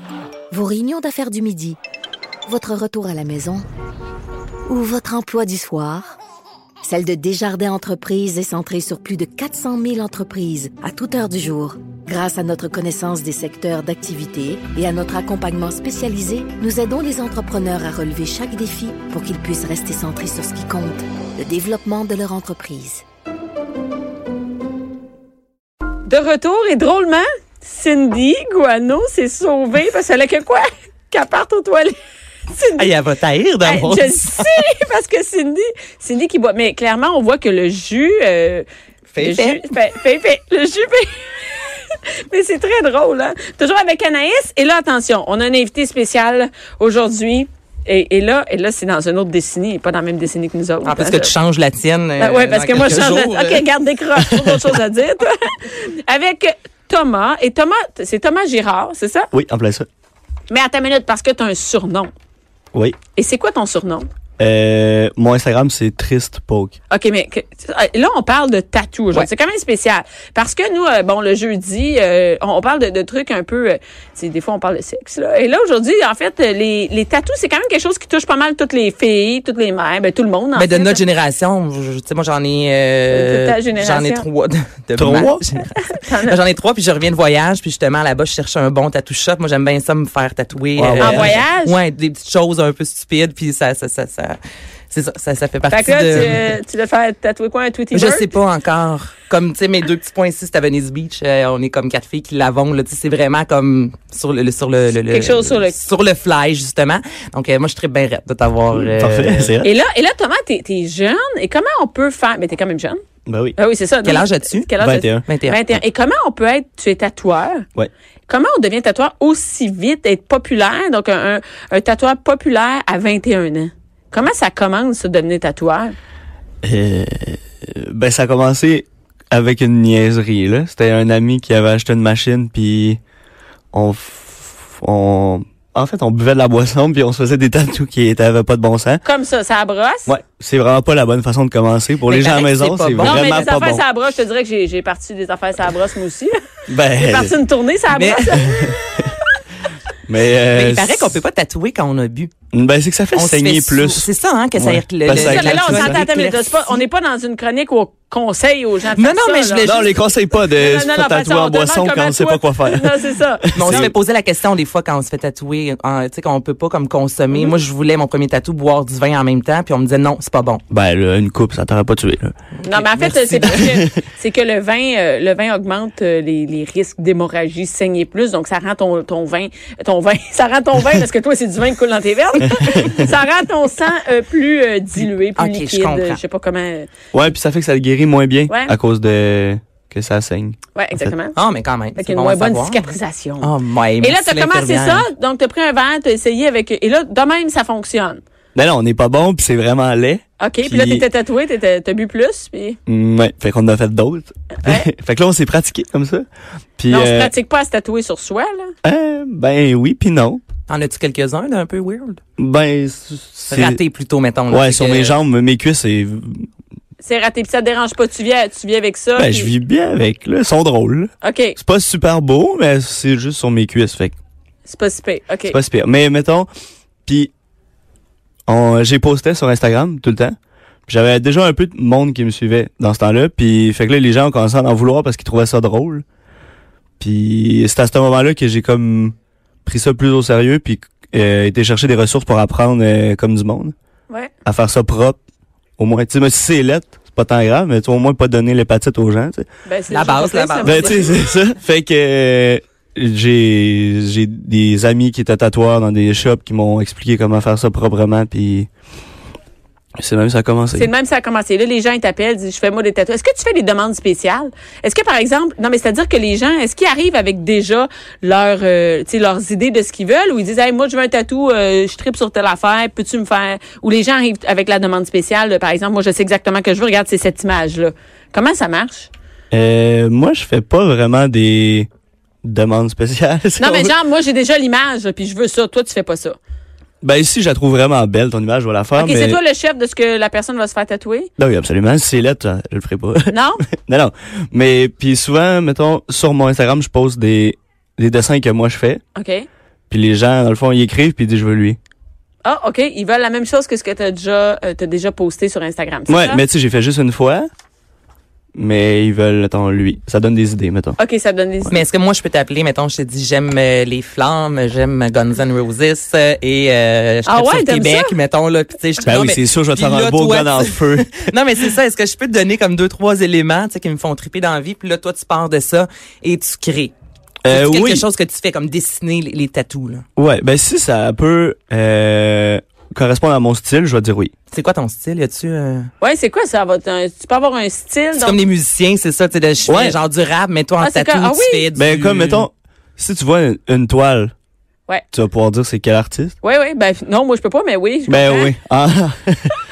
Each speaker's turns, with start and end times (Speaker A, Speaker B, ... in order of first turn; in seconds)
Speaker A: 0.5-1.8, 2.5-3.6, 4.7-6.2, 6.8-23.0
Speaker B: 26.1-31.9, 32.5-32.9, 33.6-38.6, 39.2-51.3, 52.2-59.3, 60.5-62.1, 63.1-64.0, 66.9-81.0, 83.1-84.2, 85.8-86.4, 91.0-91.8, 95.7-98.3, 105.1-105.8, 109.6-113.0, 113.6-117.6, 118.3-125.9, 139.0-140.1, 143.0-146.3, 146.9-149.1, 155.1-159.7, 160.3-163.9, 172.7-186.9, 188.5-188.8, 190.7-191.3, 191.9-198.2, 200.4-202.8, 206.9-208.7, 217.0-219.5, 221.2-221.6, 224.7-225.6, 249.6-251.2, 260.7-279.1, 283.6-286.4, 288.9-291.3, 293.3-293.6, 299.1-299.5, 302.4-306.4, 311.0-311.8, 317.2-318.2, 336.0-338.4, 340.8-341.6, 346.4-348.5
Speaker C: 32.8-34.6, 39.1-39.6, 50.8-53.7, 80.5-85.7, 86.2-94.4, 94.9-96.5, 97.9-109.5, 114.0-114.7, 115.2-115.6, 142.1-143.4, 147.9-148.3, 150.5-152.3, 153.1-156.8, 158.8-160.1, 163.5-170.6, 172.6-173.7, 184.9-186.2, 191.3-192.9, 193.4-195.1, 210.7-212.2, 213.5-215.2, 249.9-251.0, 311.7-326.9, 327.5-330.0, 334.5-335.9, 338.1-342.5
Speaker D: 59.3-59.9, 64.4-66.8, 85.0-85.4, 90.8-91.4, 108.7-109.7, 113.3-113.5, 114.8-115.2, 126.6-133.0, 133.7-139.0, 140.1-143.8, 146.7-147.4, 148.4-149.1, 150.1-151.2, 152.5-156.1, 159.6-163.9, 170.7-172.3, 173.3-173.9, 182.4-183.1, 187.1-191.1, 198.5-201.1, 202.9-206.2, 206.8-207.3, 208.8-210.4, 212.4-213.8, 214.5-216.5, 219.2-224.1, 225.5-226.5, 227.1-227.3, 228.5-230.3, 230.9-236.0, 237.0-239.1, 239.7-243.7, 244.4-245.2, 245.8-249.5, 250.6-258.7, 260.0-260.9, 279.5-281.9, 282.4-283.9, 287.0-289.4, 291.4-293.3, 293.8-299.0, 299.9-301.8, 306.1-307.5, 308.5-311.0, 319.0-321.3, 327.4-328.0, 330.2-334.3, 339.6-340.0, 341.7-344.3, 345.1-346.3, 348.1-349.5